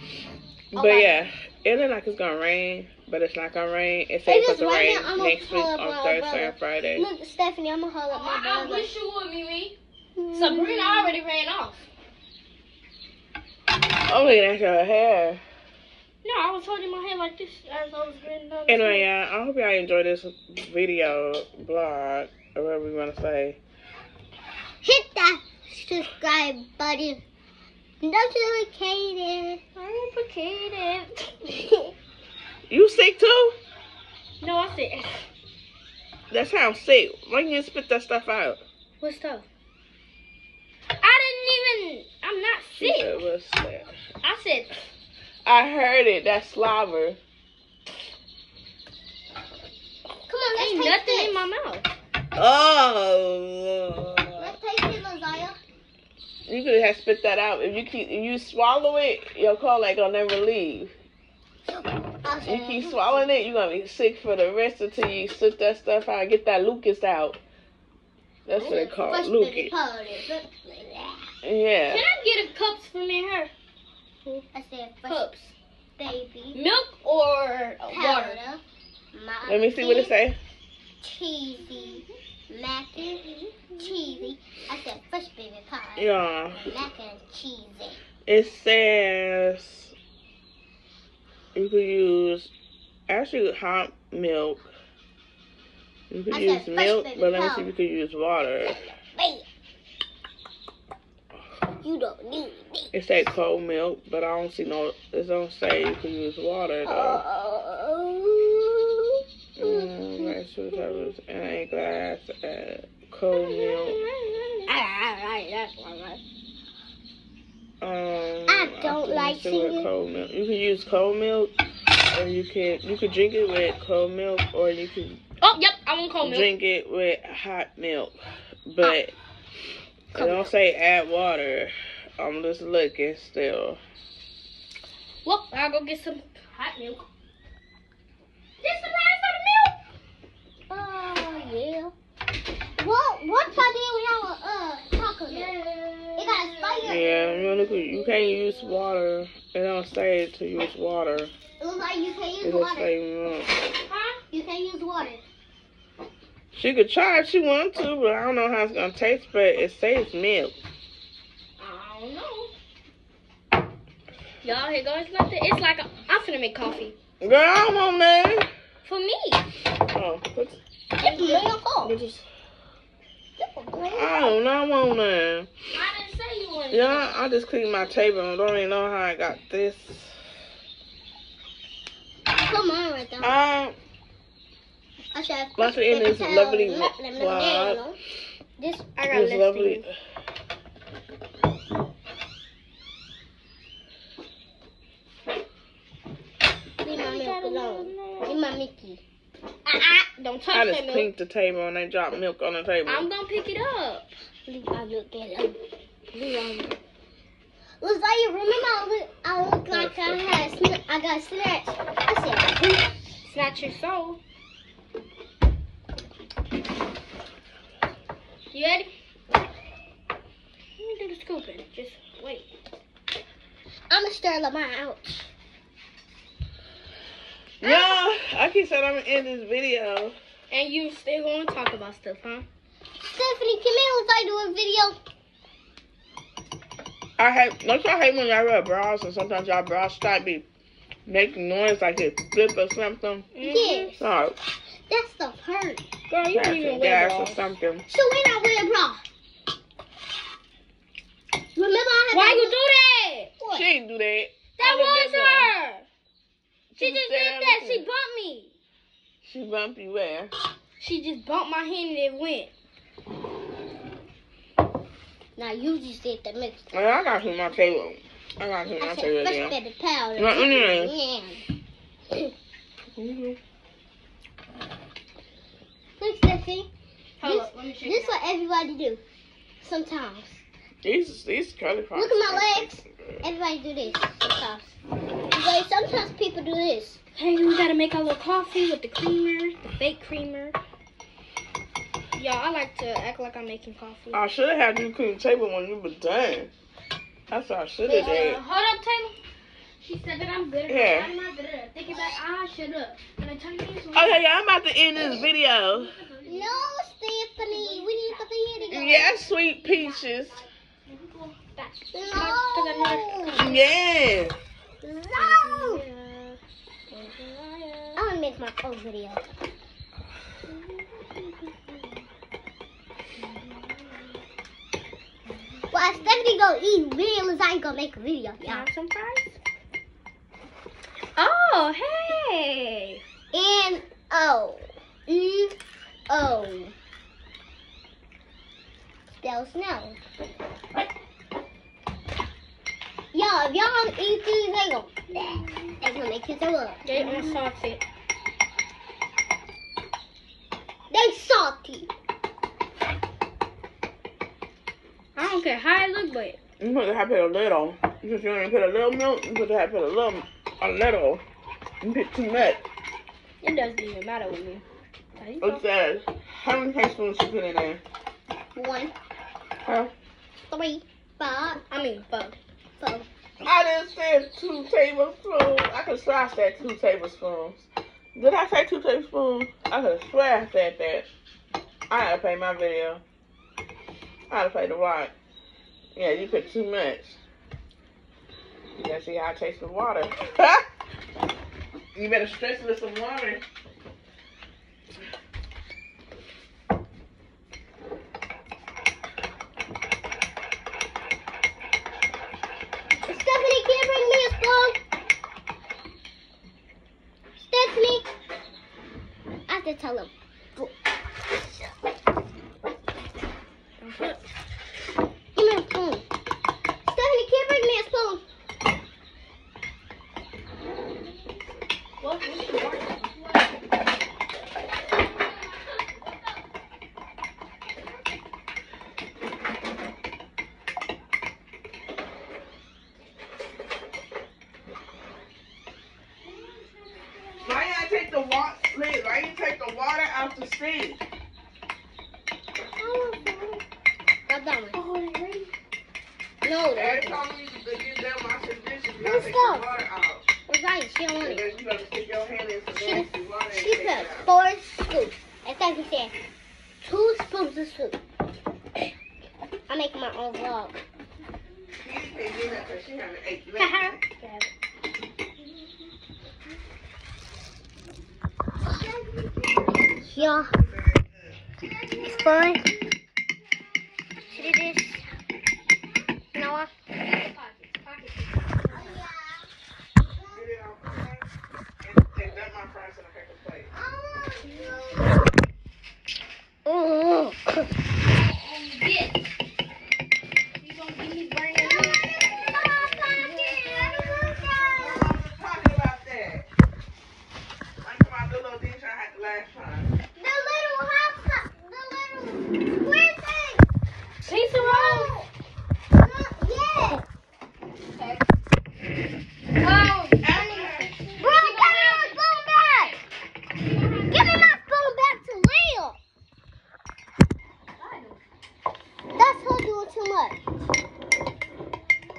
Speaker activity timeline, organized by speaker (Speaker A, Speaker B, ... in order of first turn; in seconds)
Speaker A: 0.7-7.1, 14.1-15.4, 18.7-23.6, 32.7-33.6, 36.3-38.6, 42.8-43.9, 45.4-47.2, 52.4-54.5, 56.5-60.9, 62.4-67.4, 68.5-69.7, 71.4-72.0, 79.5-80.4, 86.0-86.7, 88.2-89.9, 91.5-92.5, 93.1-94.7, 96.1-98.8, 102.9-107.2, 109.5-114.0, 117.8-121.5, 122.0-125.2, 126.2-128.2, 128.7-129.1, 130.1-133.8, 146.8-151.3, 152.4-153.5, 156.5-160.5, 167.2-168.5, 169.9-170.6, 171.8-172.2, 173.9-175.5, 176.7-180.2, 183.2-183.8, 185.6-187.8, 189.1-189.9, 200.5-203.1, 209.7-210.2, 227.6-230.2, 237.2-240.4, 241.1-243.3, 244.0-244.4, 246.3-247.8, 253.5-255.5, 256.7-257.9, 259.2-260.3, 266.7-269.6, 270.2-270.9, 272.9-273.4, 280.8-282.8, 294.1-296.5, 297.3-298.4, 300.7-301.1, 303.9-305.9, 308.7-310.4, 313.3-314.4, 356.6-361.2, 361.8-362.6, 365.4-367.8, 369.6-369.9, 373.4-381.1, 381.9-383.0, 384.3-385.1, 385.9-387.2, 388.8-390.6, 391.9-393.4, 437.4-441.0, 446.7-450.3, 451.2-454.3, 461.8-464.0, 469.7-471.4, 480.3-481.3, 481.8-483.7, 494.7-496.4, 497.8-499.9, 510.2-510.9
Speaker B: 0.7-1.1, 8.1-9.8, 10.3-11.8, 16.2-19.1, 29.8-31.3, 34.4-35.2, 39.0-39.4, 41.0-43.2, 44.2-44.7, 50.5-51.9, 71.9-73.5, 75.0-75.5, 76.5-78.4, 81.7-82.0, 113.3-114.7, 125.4-126.5, 130.1-130.5, 135.2-137.0, 138.6-139.8, 145.2-146.9, 153.8-154.2, 161.6-162.5, 164.4-166.9, 168.8-169.4, 171.0-171.5, 175.7-177.2, 188.9-189.8, 196.9-198.4, 199.7-201.1, 202.8-204.1, 206.1-206.7, 213.2-214.2, 218.5-218.9, 220.8-222.5, 230.5-232.4, 243.3-243.9, 246.1-247.4, 252.1-253.3, 254.6-255.8, 256.8-258.5, 260.8-262.5, 277.2-278.2, 287.1-290.6, 292.1-294.2, 297.9-299.1, 299.8-304.2, 305.7-306.7, 307.4-310.1, 310.9-313.6, 315.1-316.4, 316.9-318.0, 320.5-321.9, 323.2-324.0, 325.7-326.3, 328.4-329.4, 331.1-333.0, 346.8-347.8, 355.1-356.4, 363.4-364.6, 365.1-365.6, 371.7-372.4, 413.8-414.2, 422.0-423.6, 425.1-426.4, 436.2-437.9, 442.8-443.2, 444.7-445.5, 463.6-464.5, 471.7-472.6, 476.9-479.0, 484.4-484.8, 488.2-489.3, 490.6-494.9, 504.2-505.1, 507.9-508.2, 509.6-512.2, 513.5-514.2, 517.8-518.2
Speaker C: 4.2-8.9, 10.2-11.1, 24.8-27.2, 28.0-29.6, 50.3-51.5, 54.4-55.6, 62.2-63.3, 68.6-71.3, 74.2-75.2, 76.0-76.6, 77.9-78.6, 79.1-80.1, 81.0-88.0, 96.3-97.7, 99.2-99.4, 101.8-102.9, 106.8-110.3, 114.7-116.2, 118.5-119.9, 140.7-141.9, 142.8-145.6, 146.2-147.0, 151.6-152.9, 154.3-155.2, 171.0-172.0, 173.4-174.3, 182.3-183.3, 185.1-188.0, 188.6-188.9, 196.8-199.0, 204.5-205.6, 207.8-212.9, 223.9-225.3, 233.0-235.0, 243.4-244.1, 244.9-245.8, 247.9-249.0, 251.6-252.6, 253.4-253.7, 265.4-266.7, 268.8-271.4, 276.0-276.7, 277.2-279.0, 279.6-280.4, 281.9-284.8, 285.3-287.0, 306.2-309.1, 311.9-313.5, 314.8-315.8, 317.9-319.2, 325.7-328.7, 333.3-335.5, 336.1-336.7, 339.2-340.0, 343.1-347.4, 350.9-351.9, 368.5-368.9, 370.5-371.6, 372.8-373.1, 403.0-404.8, 407.4-408.1, 409.5-410.7, 415.4-416.0, 416.8-418.2, 442.8-443.6, 444.3-444.8, 446.4-447.2, 449.0-449.7, 450.5-451.4, 452.7-456.1, 456.8-458.0, 459.7-460.8, 470.0-470.5, 472.0-472.7, 474.3-475.0, 476.3-476.7, 478.7-479.5, 480.1-480.5, 483.7-485.2, 486.6-487.7, 491.6-495.1, 500.1-503.6, 504.3-505.3, 505.9-507.0, 511.2-512.9, 514.1-516.0, 519.1-520.4